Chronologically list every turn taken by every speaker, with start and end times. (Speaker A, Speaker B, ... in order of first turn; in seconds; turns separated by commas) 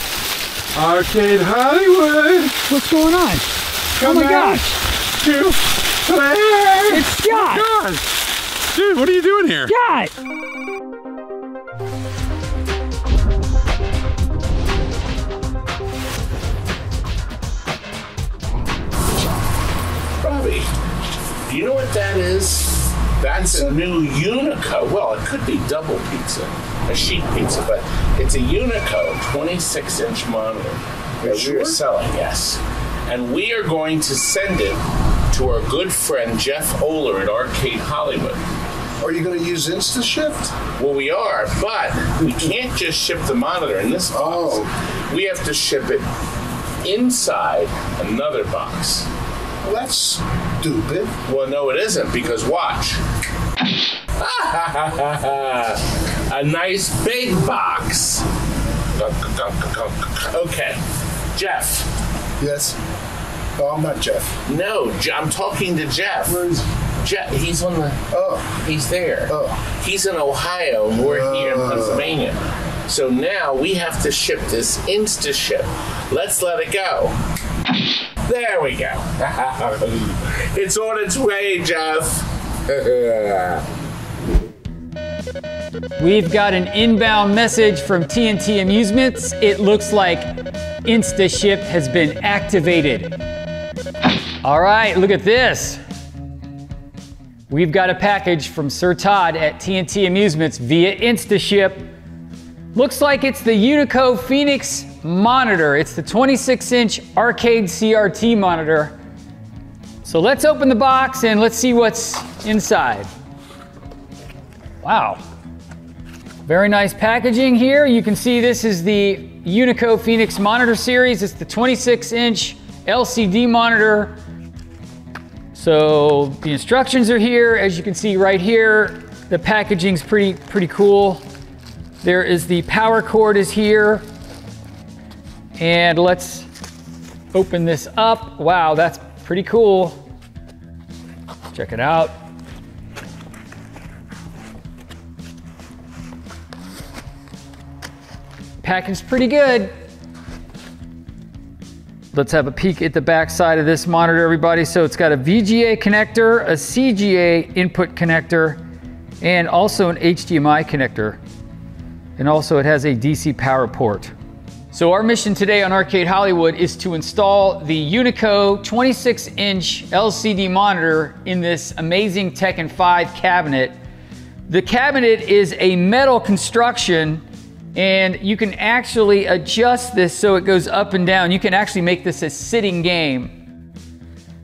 Speaker A: 0.7-2.6, Speaker B: 2.7-4.8, Speaker A: 4.0-9.7, Speaker B: 6.9-7.7, Speaker B: 9.7-10.1, Speaker C: 20.2-20.7, Speaker C: 21.5-38.4, Speaker D: 23.4-23.7, Speaker D: 31.2-31.8, Speaker D: 39.0-40.5, Speaker C: 40.5-46.1, Speaker D: 44.1-44.7, Speaker C: 46.8-49.1, Speaker D: 49.6-51.1, Speaker C: 51.2-53.0, Speaker C: 54.2-58.3, Speaker C: 59.0-60.8, Speaker C: 61.3-61.9, Speaker D: 62.4-62.8, Speaker D: 63.6-64.4, Speaker C: 64.5-66.4, Speaker D: 66.2-66.6, Speaker C: 67.0-77.2, Speaker D: 68.1-68.6, Speaker D: 69.3-69.6, Speaker D: 71.0-72.1, Speaker C: 78.2-83.6, Speaker B: 86.0-90.3, Speaker B: 90.8-93.1, Speaker B: 94.4-95.8, Speaker B: 97.5-101.9, Speaker B: 102.7-109.0, Speaker B: 110.0-113.1, Speaker B: 114.8-115.2, Speaker B: 116.5-124.2, Speaker B: 125.5-131.2, Speaker B: 132.0-134.0, Speaker B: 135.6-136.5, Speaker B: 137.3-140.0, Speaker B: 141.5-142.1, Speaker B: 148.6-149.7, Speaker B: 152.1-158.6, Speaker B: 159.2-161.2, Speaker B: 162.2-164.1, Speaker B: 164.7-173.8, Speaker B: 174.5-177.2, Speaker B: 177.7-183.3